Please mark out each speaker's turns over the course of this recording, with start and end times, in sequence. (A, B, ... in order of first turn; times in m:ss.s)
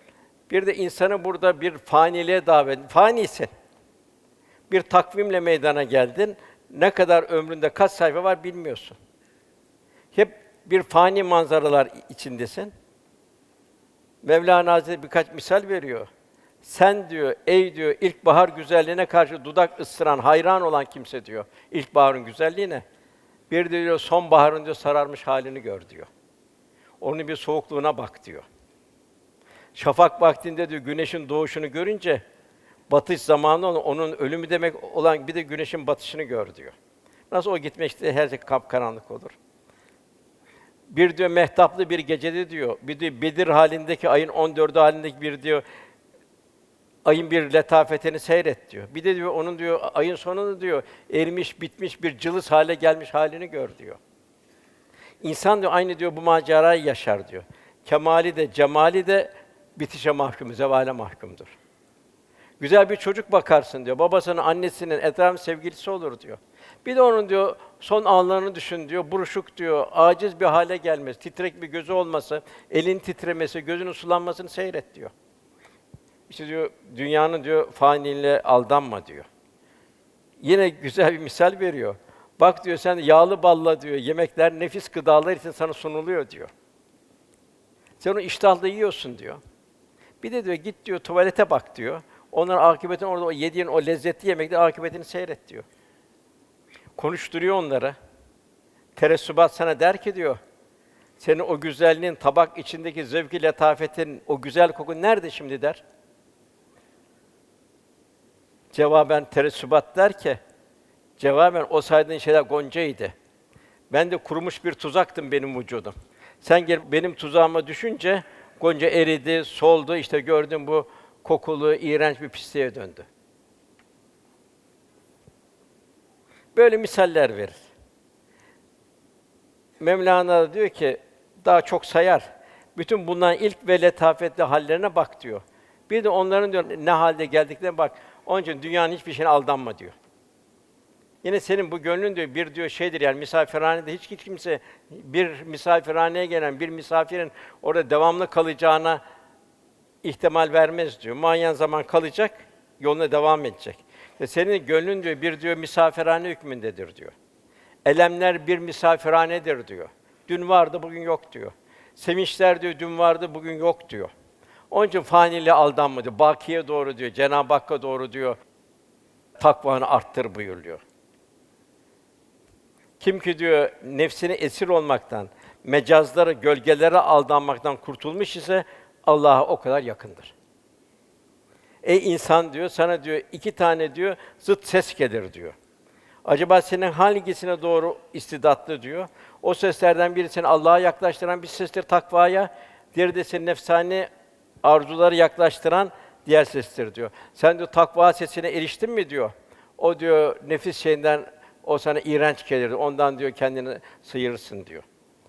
0:00.5-0:03.5 A
0:04.7-0:09.0 A
0:10.1-0:12.7 A
0:14.2-0:16.1 A
0:16.6-0:22.8 A
0:23.5-0:26.1 A
0:27.0-0:28.4 A
0:29.7-0:32.2 A
0:32.9-0:36.7 A
0:37.3-0:39.4 A
0:40.9-0:45.6 A
0:47.0-0:54.0 A
0:55.2-1:01.5 A
1:02.6-1:15.1 A
1:16.3-1:19.3 A
1:20.4-1:26.5 A
1:28.0-1:29.4 A
1:30.2-1:35.6 A
1:37.0-1:38.0 A
1:39.0-1:40.4 A
1:41.2-1:45.8 A
1:48.7-1:50.4 A
1:51.2-1:53.1 A
1:53.9-2:03.0 A
2:06.5-2:07.5 A
2:09.8-2:19.9 A
2:21.2-2:29.0 A
2:30.0-2:37.1 A
2:37.8-2:44.1 A
2:44.7-2:48.4 A
2:49.4-2:50.8 A
2:53.0-3:00.3 A
3:01.8-3:05.5 A
3:06.2-3:14.1 A
3:14.6-3:24.8 A